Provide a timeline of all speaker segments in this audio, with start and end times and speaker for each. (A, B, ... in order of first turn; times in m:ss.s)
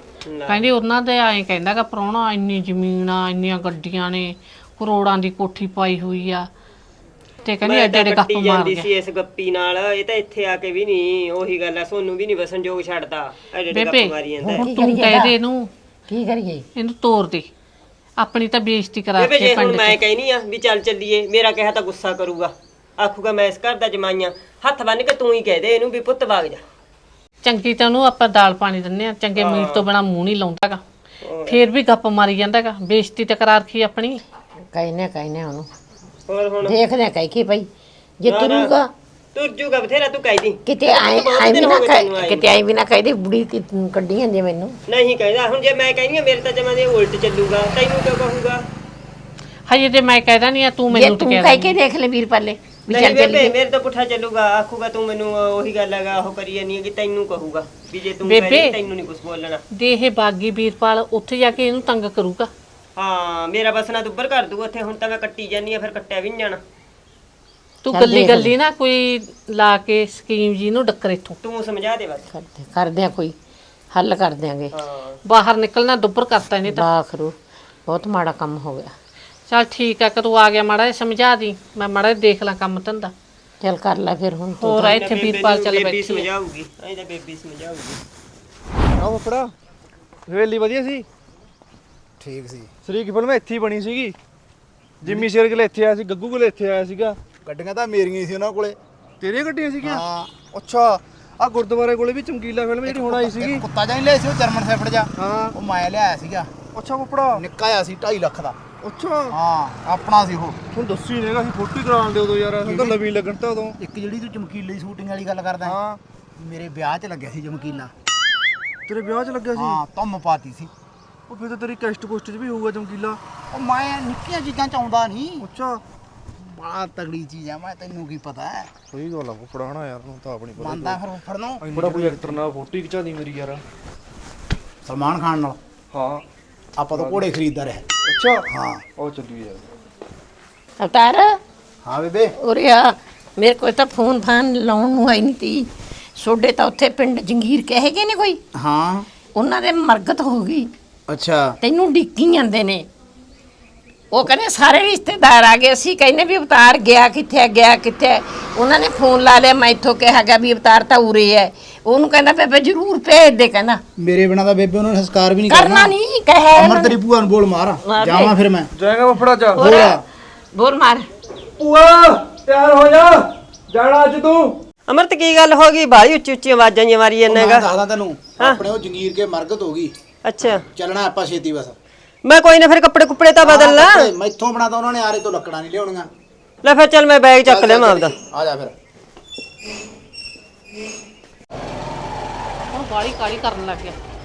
0:00.2-0:00.7 A
0:00.5-0:06.5 B
0:07.4-0:08.9 B
0:07.6-0:14.7 A
0:13.7-0:15.7 B
0:14.4-0:15.3 C
0:16.1-0:16.6 C
0:16.7-0:17.5 B
0:18.2-0:20.0 B
0:19.2-0:26.6 A
0:27.4-0:30.8 B
0:29.4-0:29.9 A
0:31.2-0:31.6 A
0:31.5-0:34.2 B
0:34.7-0:35.7 C
0:36.3-0:36.8 A
0:36.6-0:37.7 C
0:38.2-0:38.9 C
0:38.2-0:38.7 A
0:39.3-0:42.5 A
0:40.7-0:44.7 C
0:44.9-0:48.6 A
0:49.7-0:51.7 B
0:50.9-0:53.5 C
0:52.9-0:59.6 A
0:58.2-0:58.8 B
0:59.7-1:02.5 B
1:03.0-1:06.6 A
1:07.8-1:11.4 B
1:07.9-1:08.5 C
1:11.4-1:12.2 A
1:12.3-1:13.3 C
1:13.9-1:14.7 C
1:14.7-1:15.2 A
1:15.2-1:16.8 B
1:16.6-1:17.3 C
1:17.9-1:18.9 C
1:19.5-1:23.1 B
1:23.6-1:24.9 C
1:24.6-1:26.3 B
1:24.9-1:28.0 A
1:28.9-1:29.5 D
1:30.3-1:31.1 D
1:32.2-1:32.7 E
1:32.8-1:34.2 D
1:35.0-1:37.2 D
1:37.4-1:38.8 E
1:39.2-1:43.6 D
1:39.8-1:40.3 E
1:42.8-1:46.5 E
1:45.2-1:45.5 D
1:46.7-1:47.4 D
1:47.3-1:48.6 E
1:48.8-1:49.3 D
1:49.3-1:50.6 E
1:50.7-1:53.8 D
1:52.6-1:53.0 E
1:53.8-1:55.8 E
1:55.6-1:56.0 D
1:56.4-1:57.9 E
1:58.9-1:59.8 D
1:59.5-2:00.7 E
2:01.3-2:03.2 D
2:03.5-2:05.5 E
2:05.4-2:05.8 D
2:06.4-2:08.7 E
2:08.9-2:11.0 D
2:10.6-2:12.3 E
2:11.6-2:13.6 D
2:14.8-2:15.6 E
2:15.9-2:16.2 D
2:16.8-2:17.8 E
2:16.9-2:17.3 D
2:18.0-2:18.4 D
2:18.5-2:18.8 E
2:19.0-2:19.6 D
2:20.8-2:21.3 C
2:21.8-2:22.3 E
2:22.4-2:25.7 C
2:26.2-2:28.4 C
2:28.6-2:29.0 E
2:29.4-2:30.7 C
2:31.1-2:31.6 E
2:31.6-2:32.8 C
2:34.1-2:43.8 C
2:44.0-2:45.9 E
2:45.5-2:47.0 C
2:46.6-2:48.7 E
2:47.8-2:48.4 C
2:48.8-2:49.7 D
2:49.5-2:50.0 C
2:49.5-2:50.0 E
2:50.5-2:51.1 C
2:51.6-2:54.6 D
2:54.9-2:57.6 A
2:57.3-2:59.9 E
3:00.2-3:00.6 A
3:00.7-3:01.8 E
3:02.2-3:04.1 A
3:03.4-3:06.1 E
3:06.6-3:08.1 A
3:07.4-3:08.7 E
3:12.7-3:14.0 B